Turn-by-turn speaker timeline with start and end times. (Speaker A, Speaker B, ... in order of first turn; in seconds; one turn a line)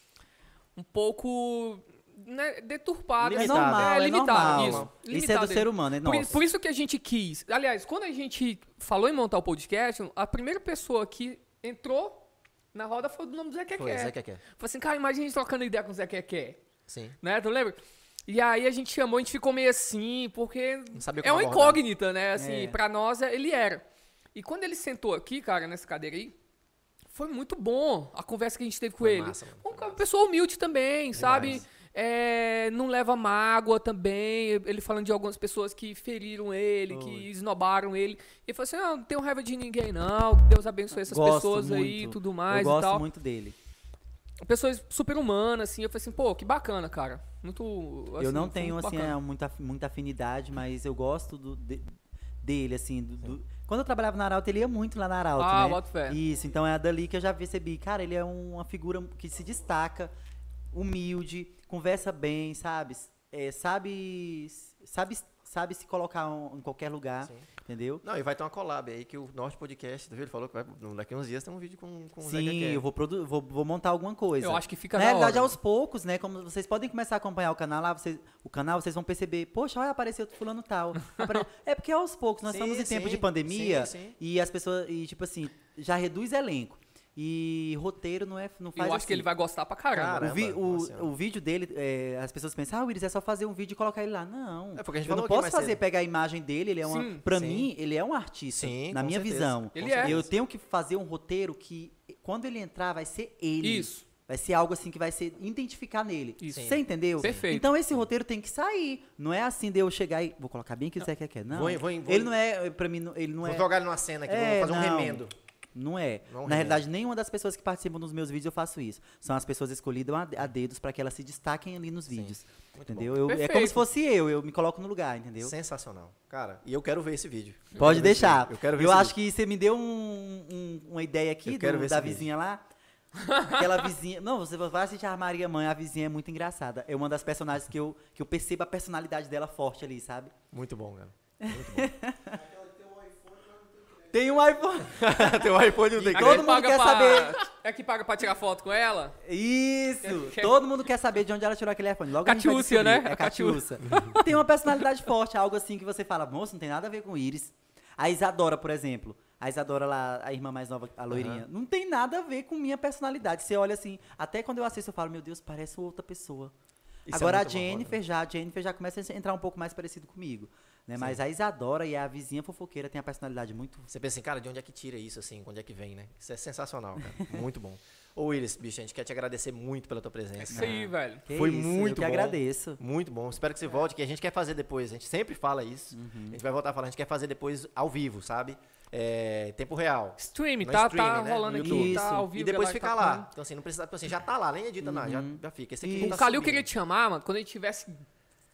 Speaker A: 0.8-16.6
Speaker B: 3.2-4.9
Speaker C: 3.3-6.4
Speaker B: 13.8-14.4
Speaker B: 16.9-17.2
Speaker A: 17.2-26.3
Speaker B: 20.9-21.8
Speaker C: 22.4-22.8
Speaker A: 27.1-43.0
Speaker B: 29.0-30.0
Speaker B: 31.1-31.6
Speaker C: 31.2-31.6
Speaker B: 36.9-37.3
Speaker C: 41.1-43.5
Speaker A: 44.5-49.2
Speaker C: 48.2-60.1
Speaker A: 55.4-56.2
Speaker C: 60.7-68.0
Speaker B: 68.0-72.8
Speaker C: 72.2-89.3
Speaker A: 74.4-75.5
Speaker A: 81.1-81.3
Speaker B: 82.5-84.2
Speaker A: 88.8-90.2
Speaker B: 89.9-91.1
Speaker C: 90.1-113.7
Speaker B: 94.8-95.8
Speaker A: 96.8-97.2
Speaker B: 97.3-97.7
Speaker B: 98.5-100.3
Speaker A: 99.7-100.1
Speaker A: 103.6-104.0
Speaker A: 106.4-107.7
Speaker B: 106.5-107.5
Speaker B: 111.5-112.3
Speaker B: 113.4-115.3
Speaker C: 114.2-115.2
Speaker C: 115.7-125.5
Speaker B: 116.3-116.8
Speaker B: 122.1-123.2
Speaker A: 123.3-123.8
Speaker B: 125.4-129.1
Speaker C: 127.8-132.6
Speaker B: 131.4-132.3
Speaker A: 133.2-133.5
Speaker C: 133.4-140.3
Speaker B: 140.5-141.9
Speaker C: 141.4-142.4
Speaker D: 142.3-145.1
Speaker C: 144.1-145.1
Speaker B: 144.9-146.6
Speaker C: 145.9-147.4
Speaker A: 146.1-149.2
Speaker C: 149.2-166.5
Speaker A: 150.0-150.6
Speaker A: 152.2-154.2
Speaker B: 161.1-161.4
Speaker B: 167.1-168.0
Speaker C: 167.1-173.9
Speaker B: 173.9-180.8
Speaker A: 180.4-181.2
Speaker C: 180.5-182.8
Speaker B: 181.3-196.7
Speaker C: 185.9-186.4
Speaker A: 190.2-193.3
Speaker C: 191.5-192.3
Speaker C: 194.8-196.2
Speaker A: 196.0-198.0